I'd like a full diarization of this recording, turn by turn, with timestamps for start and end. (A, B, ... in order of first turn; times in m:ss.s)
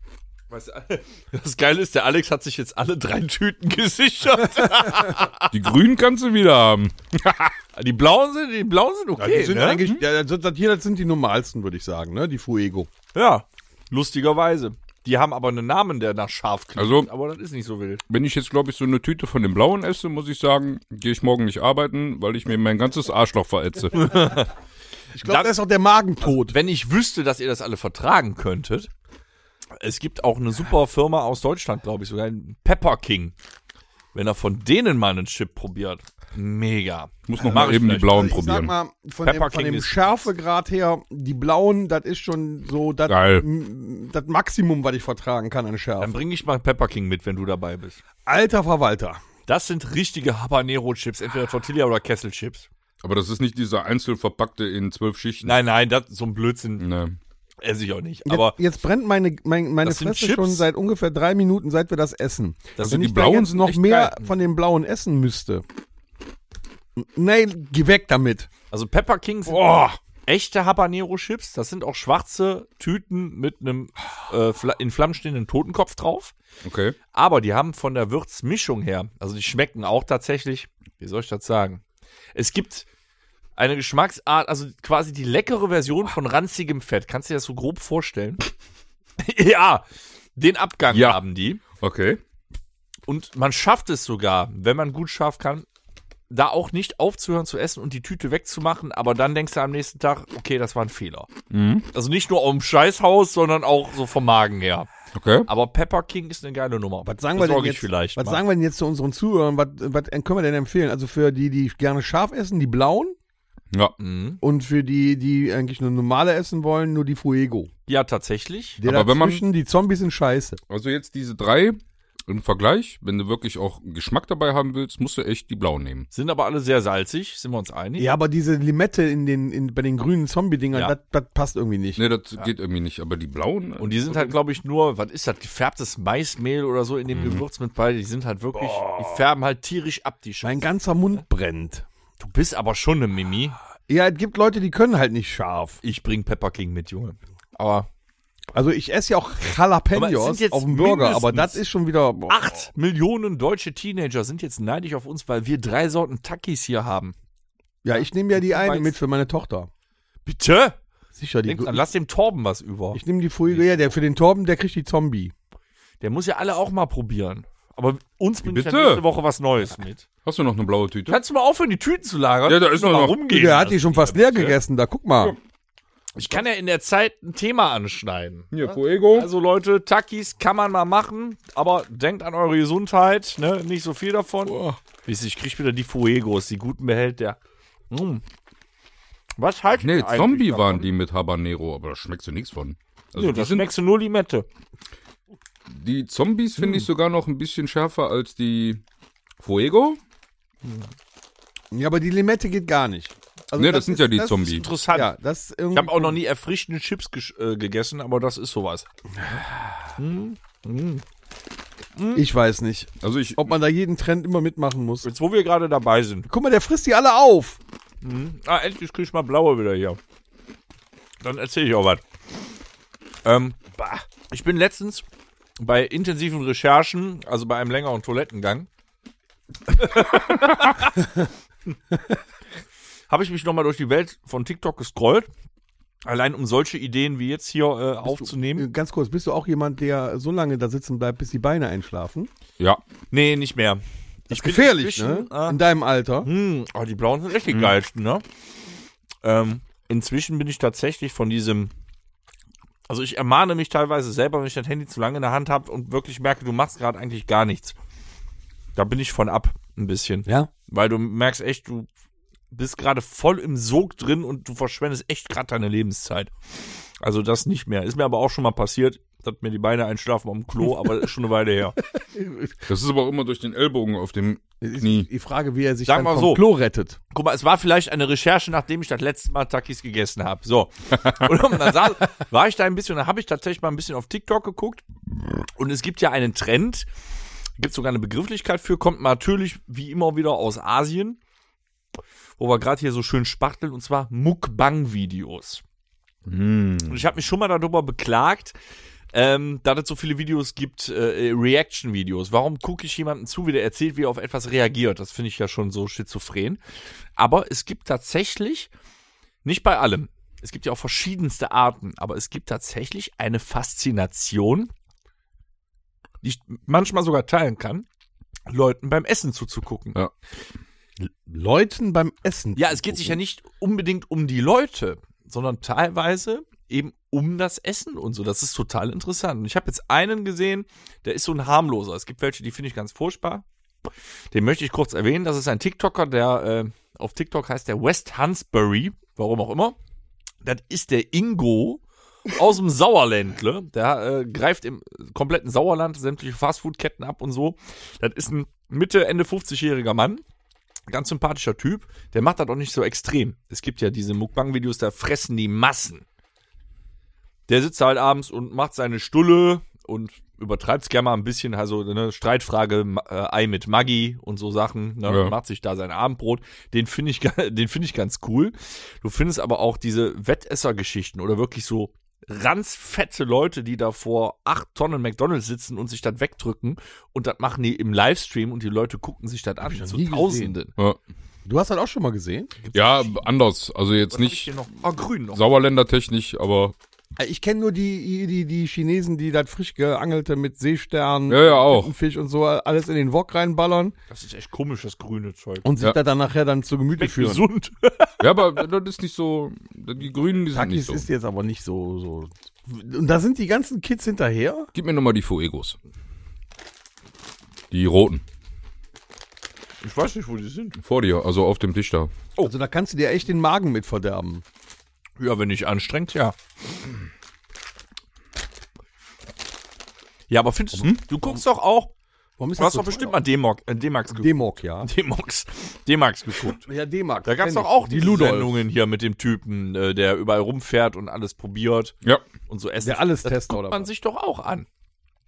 0:00.5-0:05.5 A
0:05.5-0:07.5 B
0:07.8-0:09.8 A
0:09.2-0:12.9 C
0:13.2-0:18.0 A
0:16.8-0:17.1 B
0:18.1-0:24.3 B
0:23.9-0:24.5 A
0:25.2-0:26.6 C
0:25.2-0:25.5 A
0:26.2-0:28.9 A
0:29.8-0:33.3 A
0:34.1-0:38.2 A
0:37.3-0:38.7 B
0:37.4-0:46.2 C
0:39.2-0:40.1 A
0:43.1-0:43.5 B
0:46.0-0:48.0 A
0:48.3-0:49.2 C
0:49.5-0:52.7 A
0:53.0-0:55.6 B
0:55.4-0:56.8 A
0:56.8-0:57.2 B
0:57.6-0:58.6 A
0:58.3-1:05.6 C
0:59.8-1:00.7 A
1:02.8-1:04.3 A
1:02.8-1:03.8 B
1:07.0-1:08.5 C
1:08.7-1:16.3 A
1:09.5-1:10.0 C
1:16.6-1:17.0 B
1:17.1-1:21.8 A
1:22.4-1:22.9 A
1:23.6-1:28.5 A
1:29.2-1:31.6 A
1:30.9-1:31.2 B
1:31.8-1:32.2 B
1:33.1-1:35.7 A
1:36.3-1:41.3 A
1:41.5-1:41.9 B
1:41.9-1:44.9 A
1:45.1-1:45.5 B
1:45.5-1:48.4 A
1:47.0-1:53.2 C
1:54.0-1:54.4 A
1:54.4-1:57.7 C
1:57.9-1:58.8 A
1:58.8-2:00.6 C
1:58.8-1:59.4 B
2:00.7-2:06.1 B
2:06.1-2:08.1 A
2:08.0-2:12.0 C
2:12.0-2:14.4 B
2:13.8-2:20.7 A
2:17.1-2:17.4 B
2:20.4-2:21.9 C
2:22.2-2:23.6 A
2:23.9-2:25.8 C
2:25.8-2:27.9 A
2:28.5-2:32.5 C
2:30.0-2:31.6 A
2:32.3-2:37.2 A
2:37.8-2:39.7 C
2:38.4-2:39.0 A
2:40.2-2:40.8 A
2:41.2-2:41.8 C
2:41.5-2:43.6 A
2:42.9-2:45.3 C
2:46.0-2:50.1 A
2:48.4-2:49.0 B
2:50.2-2:51.2 B
2:51.1-2:54.6 A
2:52.5-2:53.2 B
2:53.3-2:55.4 C
2:56.2-3:07.4 A
2:58.5-2:59.3 B
3:04.5-3:04.8 B
3:07.9-3:08.2 A
3:09.4-3:10.9 A
3:09.8-3:13.7 B
3:13.2-3:14.5 A
3:15.7-3:18.8 B
3:19.4-3:20.0 B
3:21.7-3:26.2 C
3:23.6-3:24.7 B
3:24.5-3:25.1 A
3:25.7-3:29.4 A
3:29.2-3:29.8 C
3:30.0-3:31.0 A
3:32.0-3:32.2 A
3:32.2-3:35.1 C
3:33.0-3:33.6 B
3:35.0-3:36.3 A
3:36.3-3:37.6 C
3:38.0-3:40.0 A
3:41.2-3:42.0 A
3:43.2-3:45.0 A
3:45.6-3:48.7 A
3:49.7-3:51.1 A
3:53.1-3:55.3 A
3:56.0-3:58.7 A
3:58.0-4:02.3 C
4:03.1-4:05.6 A
4:04.3-4:06.3 C
4:06.2-4:08.2 A
4:09.2-4:11.7 A
4:12.9-4:17.8 A
4:18.8-4:21.9 A
4:22.5-4:31.8 A
4:32.1-4:32.5 C
4:32.7-4:35.1 B
4:34.6-4:37.0 C
4:35.9-4:36.4 A
4:37.1-4:44.8 A
4:45.6-4:46.9 A
4:47.6-4:51.2 A
4:52.4-4:55.6 A
4:56.3-4:57.0 B
4:56.9-4:58.6 A
4:59.1-5:06.6 A
5:07.2-5:08.7 A
5:09.4-5:14.7 A
5:16.2-5:17.9 A
5:18.5-5:20.0 A
5:21.0-5:23.2 C
5:22.6-5:33.4 A
5:34.3-5:39.8 A
5:40.4-5:50.2 A
5:50.9-5:56.0 A
5:57.5-6:20.7 A
6:05.1-6:05.4 B
6:19.6-6:20.6 C
6:21.4-6:22.5 C
6:22.6-6:23.2 A
6:22.7-6:24.5 B
6:24.1-6:25.4 A
6:25.3-6:26.8 B
6:27.2-6:34.0 C
6:31.3-6:31.9 B
6:34.1-6:35.7 A
6:35.6-6:37.5 C
6:37.0-6:38.4 A
6:38.2-6:41.1 B
6:40.5-6:44.7 C
6:44.8-6:45.8 B
6:47.7-6:48.2 B
6:49.8-6:50.8 A
6:50.8-6:52.1 B
6:52.4-6:54.4 C
6:55.2-6:56.4 A
7:00.3-7:01.9 A
7:02.4-7:03.2 C
7:02.6-7:06.6 A
7:04.1-7:04.9 C
7:06.6-7:08.6 C
7:07.2-7:11.9 A
7:12.5-7:14.7 A
7:12.8-7:13.9 C